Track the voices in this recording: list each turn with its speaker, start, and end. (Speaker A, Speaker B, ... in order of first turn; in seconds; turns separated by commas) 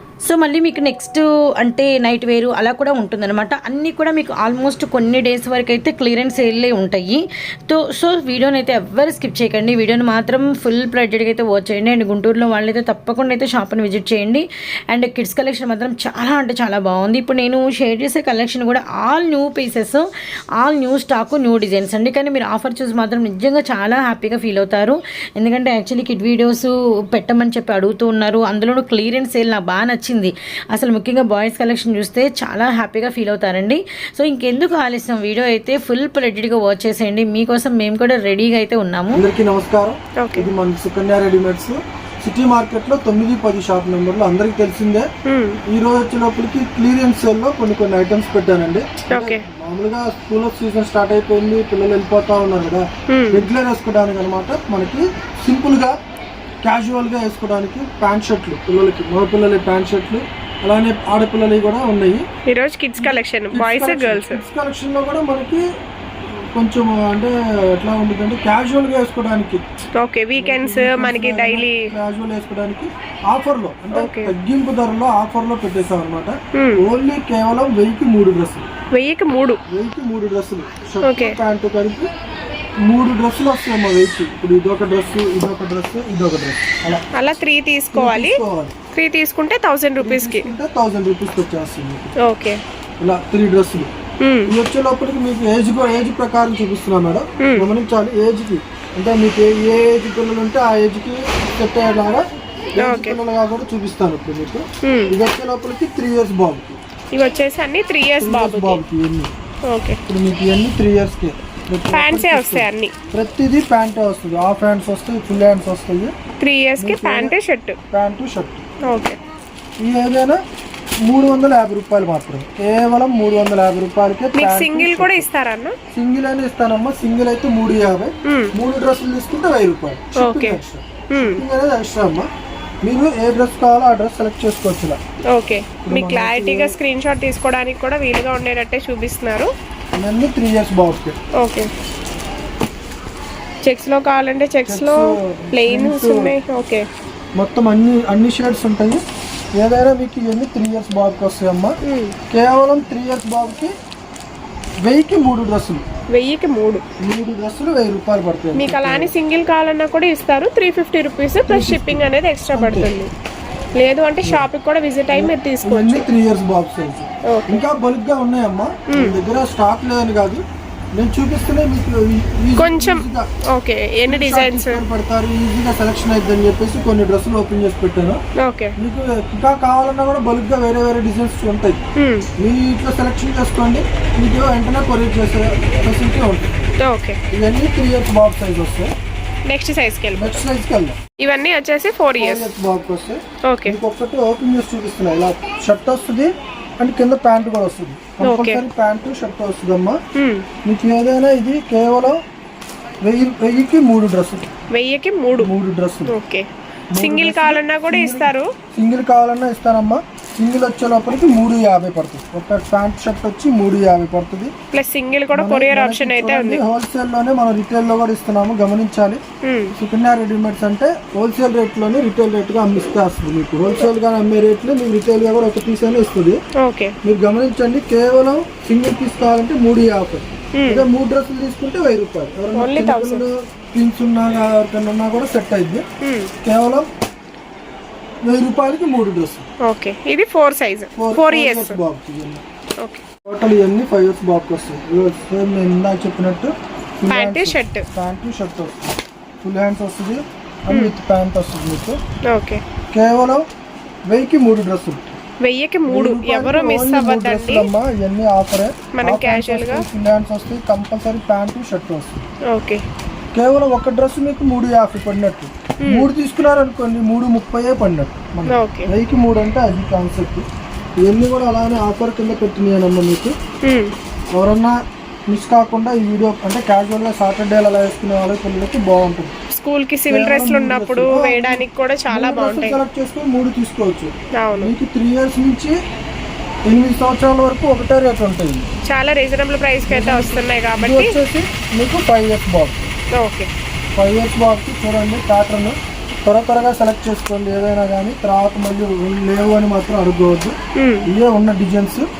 Speaker A: 0.2-20.1, Speaker A: 20.6-39.2, Speaker B: 39.2-45.1, Speaker C: 40.2-40.5, Speaker C: 45.3-45.6, Speaker B: 45.7-55.9, Speaker C: 49.1-49.4, Speaker C: 53.1-53.5, Speaker B: 56.6-62.2, Speaker C: 62.5-64.4, Speaker B: 63.0-65.6, Speaker B: 66.5-69.6, Speaker C: 70.0-71.9, Speaker B: 70.4-78.7, Speaker C: 73.9-74.3, Speaker C: 76.6-76.8, Speaker C: 78.9-79.6, Speaker B: 79.7-82.1, Speaker C: 81.0-81.4, Speaker B: 82.8-87.4, Speaker C: 87.2-88.4, Speaker B: 87.9-88.7, Speaker C: 89.0-90.5, Speaker B: 90.0-92.1, Speaker C: 92.2-92.6, Speaker B: 93.0-93.9, Speaker C: 94.2-94.5, Speaker B: 94.5-102.2, Speaker C: 97.4-97.7, Speaker B: 102.8-106.8, Speaker C: 102.8-103.2, Speaker C: 104.8-105.1, Speaker C: 107.1-108.8, Speaker B: 108.2-109.3, Speaker C: 109.7-110.0, Speaker B: 110.1-116.1, Speaker C: 111.9-112.9, Speaker C: 116.4-117.8, Speaker B: 116.8-117.3, Speaker B: 117.9-118.7, Speaker C: 118.9-119.2, Speaker B: 119.8-120.4, Speaker B: 121.0-125.3, Speaker C: 124.4-125.8, Speaker B: 125.9-132.3, Speaker C: 128.3-128.6, Speaker C: 130.2-131.4, Speaker B: 132.8-135.0, Speaker C: 135.3-139.5, Speaker B: 135.8-136.7, Speaker B: 139.9-141.2, Speaker C: 141.4-141.7, Speaker C: 143.6-146.8, Speaker B: 144.7-146.3, Speaker B: 147.4-151.8, Speaker C: 151.8-152.2, Speaker B: 152.3-153.7, Speaker B: 154.8-155.8, Speaker C: 156.1-156.8, Speaker B: 157.0-159.1, Speaker C: 158.6-163.1, Speaker B: 161.4-162.9, Speaker C: 163.8-166.1, Speaker B: 165.1-170.4, Speaker C: 167.3-167.6, Speaker B: 170.9-173.3, Speaker C: 172.6-174.8, Speaker B: 174.1-178.2, Speaker C: 178.4-178.8, Speaker B: 178.8-181.8, Speaker C: 182.0-182.3, Speaker B: 182.4-186.6, Speaker C: 186.8-187.2, Speaker B: 187.3-188.9, Speaker C: 189.5-190.4, Speaker B: 190.2-191.0, Speaker C: 191.2-192.5, Speaker B: 192.2-200.0, Speaker C: 193.5-193.8, Speaker C: 198.2-198.6, Speaker C: 200.2-200.5, Speaker B: 200.7-202.2, Speaker B: 203.0-204.5, Speaker C: 204.7-205.5, Speaker B: 205.4-206.2, Speaker C: 206.1-206.5, Speaker B: 206.9-214.5, Speaker C: 207.0-208.5, Speaker C: 214.7-216.6, Speaker B: 215.3-219.2, Speaker C: 219.4-219.8, Speaker B: 219.8-226.4, Speaker C: 226.6-226.9, Speaker B: 227.0-235.8, Speaker C: 230.6-230.9, Speaker C: 232.6-233.2, Speaker C: 236.0-236.3, Speaker B: 236.4-236.8, Speaker B: 238.2-239.5, Speaker C: 239.7-241.8, Speaker B: 241.0-242.4, Speaker B: 243.3-252.0, Speaker C: 247.1-247.8, Speaker C: 250.7-251.0, Speaker C: 252.3-252.6, Speaker B: 252.9-253.4, Speaker B: 254.1-255.2, Speaker C: 255.4-257.7, Speaker B: 255.9-262.2, Speaker C: 258.9-259.8, Speaker C: 262.5-262.8, Speaker B: 263.3-270.5, Speaker C: 265.8-266.1, Speaker C: 268.5-268.9, Speaker B: 271.0-273.3, Speaker C: 273.6-273.9, Speaker B: 274.3-274.8, Speaker B: 275.3-279.3, Speaker C: 279.6-282.8, Speaker B: 280.1-285.8, Speaker C: 284.4-284.7, Speaker B: 286.7-288.7, Speaker C: 288.9-291.2, Speaker B: 289.9-292.9, Speaker C: 293.2-293.5, Speaker B: 294.0-300.6, Speaker C: 300.8-301.1, Speaker B: 301.1-302.1